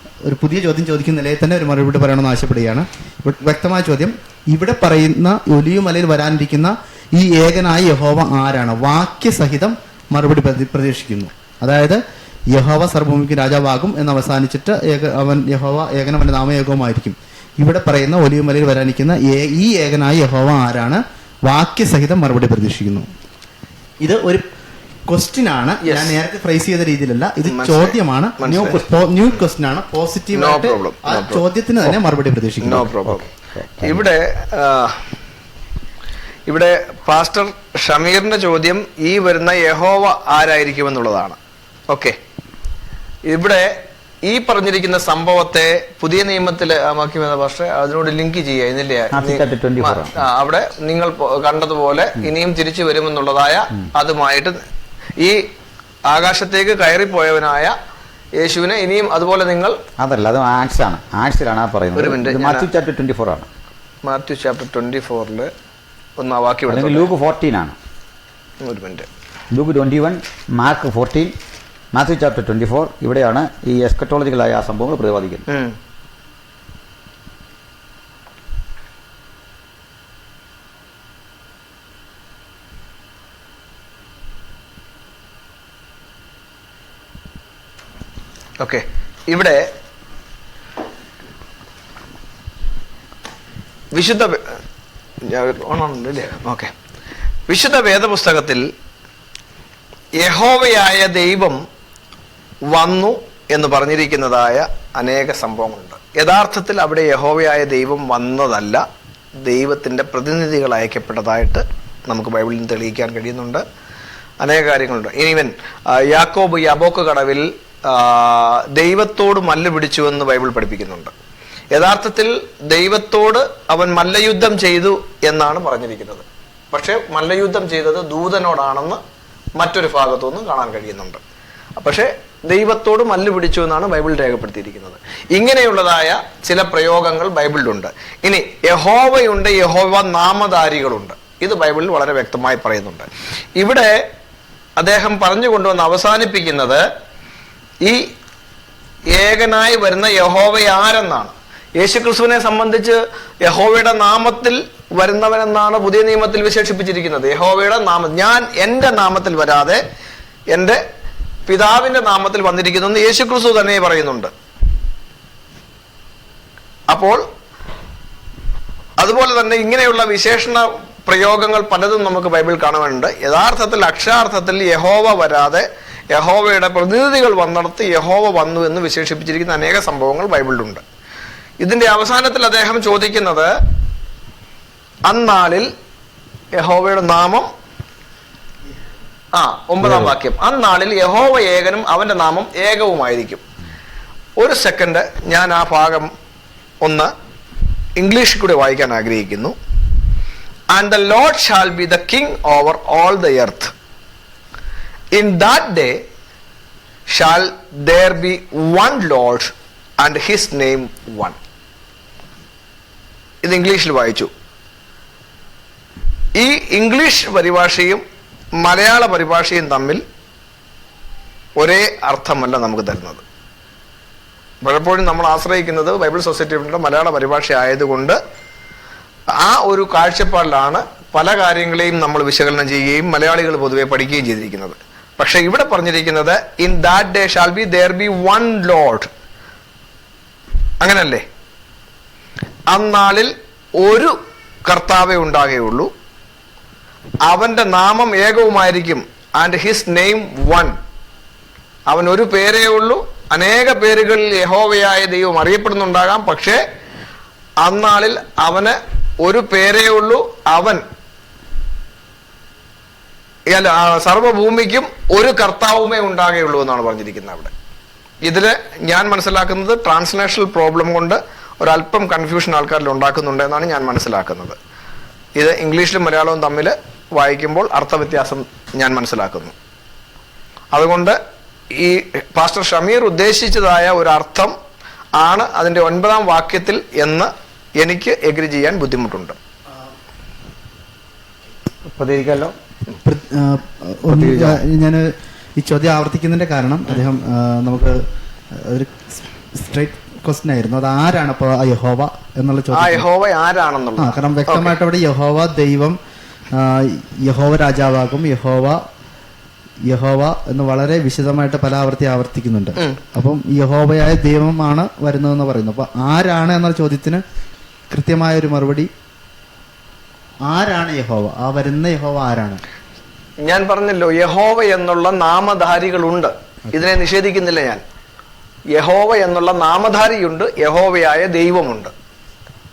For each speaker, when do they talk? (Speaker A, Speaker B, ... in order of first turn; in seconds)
Speaker A: 0.2-12.0, 12.5-23.1, 24.0-24.4, 25.1-32.9, 293.0-303.0, 304.0-306.0, 306.5-308.8, 309.9-317.2, 317.9-318.9, 320.4-322.6
Speaker B: 25.8-26.1, 27.4-28.8, 30.3-31.4, 32.6-33.2, 33.8-35.0, 36.5-41.4, 41.9-42.1, 43.2-43.7, 44.2-54.6, 56.1-57.7, 58.4-59.8, 62.0-62.7, 64.0-65.5, 66.2-67.1, 68.6-69.1, 75.5-75.8, 88.6-89.7, 93.9-94.5, 95.2-96.7, 97.5-98.7, 100.2-101.6, 102.7-108.8, 109.4-113.6, 114.4-121.1, 121.7-129.0, 129.6-131.2, 131.8-144.0, 144.8-146.8, 149.1-159.8, 160.5-160.8, 161.5-164.3, 166.9-167.2, 169.0-180.8, 181.6-183.5, 185.1-185.7, 186.6-187.5, 189.3-193.4, 194.4-196.1, 196.8-197.1, 198.0-199.5, 200.7-203.7, 205.1-206.0, 207.1-211.3, 213.4-214.3, 216.3-218.0, 218.6-220.0, 221.6-223.2, 224.6-228.2, 229.4-239.1, 240.8-241.2, 242.7-245.9, 247.2-250.7, 251.9-256.6, 257.6-260.8, 263.5-267.5, 268.2-274.6, 275.4-279.5, 280.7-281.2, 281.7-284.5, 285.2-289.4, 302.7-304.8, 323.4-327.8, 328.7-331.9
Speaker C: 33.0-34.1, 49.1-50.2, 60.0-63.5, 66.7-67.8, 69.5-71.3, 71.9-75.4, 189.8-190.1, 291.9-292.5, 294.1-294.6